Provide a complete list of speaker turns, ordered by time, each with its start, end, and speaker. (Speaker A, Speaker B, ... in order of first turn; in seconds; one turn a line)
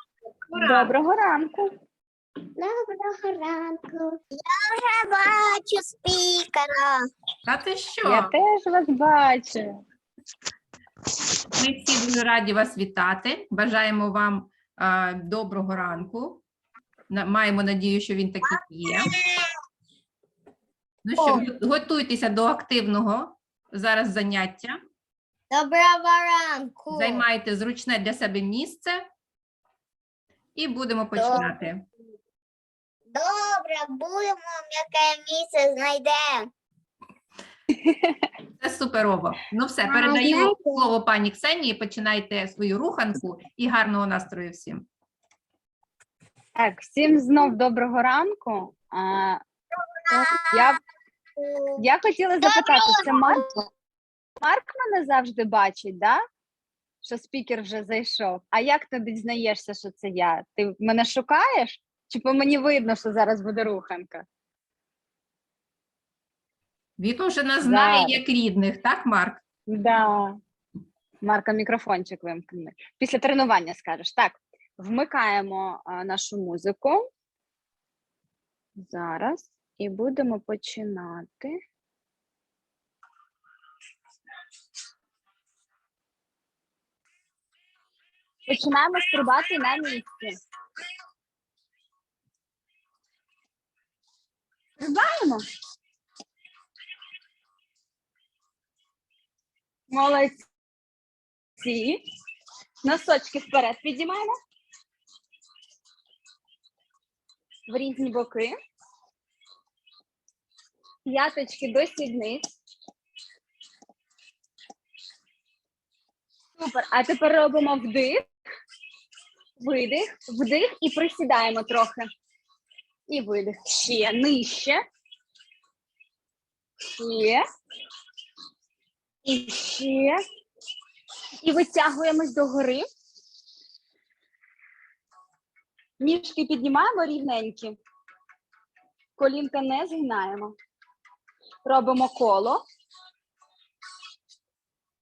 Speaker A: 0.5-0.9
Speaker B: 0.6-1.7
Speaker C: 2.6-7.0
Speaker A: 7.5-8.3
Speaker B: 8.0-9.8
Speaker A: 11.6-16.4
Speaker A: 17.1-19.1
Speaker C: 18.9-19.4
Speaker A: 21.0-24.8
Speaker C: 21.2-21.4
Speaker C: 25.5-27.2
Speaker A: 26.9-29.1
Speaker A: 30.6-31.8
Speaker C: 31.1-31.5
Speaker C: 33.1-36.5
Speaker B: 37.7-38.2
Speaker A: 38.6-44.9
Speaker C: 39.9-40.9
Speaker B: 46.5-49.4
Speaker C: 50.1-50.7
Speaker B: 50.2-50.8
Speaker C: 51.4-51.8
Speaker B: 51.8-53.6
Speaker C: 52.5-53.4
Speaker B: 54.4-56.2
Speaker B: 57.0-64.2
Speaker A: 67.0-69.4
Speaker B: 67.6-68.2
Speaker B: 69.7-70.4
Speaker B: 71.2-77.0
Speaker B: 78.8-81.5
Speaker B: 88.5-90.4
Speaker B: 94.8-95.4
Speaker B: 99.9-100.4
Speaker B: 101.6-102.0
Speaker B: 102.8-104.3
Speaker B: 107.7-108.5
Speaker B: 111.1-112.4
Speaker B: 116.5-118.2
Speaker B: 119.6-122.0
Speaker B: 123.1-124.8
Speaker B: 127.0-127.4
Speaker B: 129.2-130.2
Speaker B: 131.4-132.8
Speaker B: 136.0-137.8
Speaker B: 139.2-140.5
Speaker B: 141.6-142.6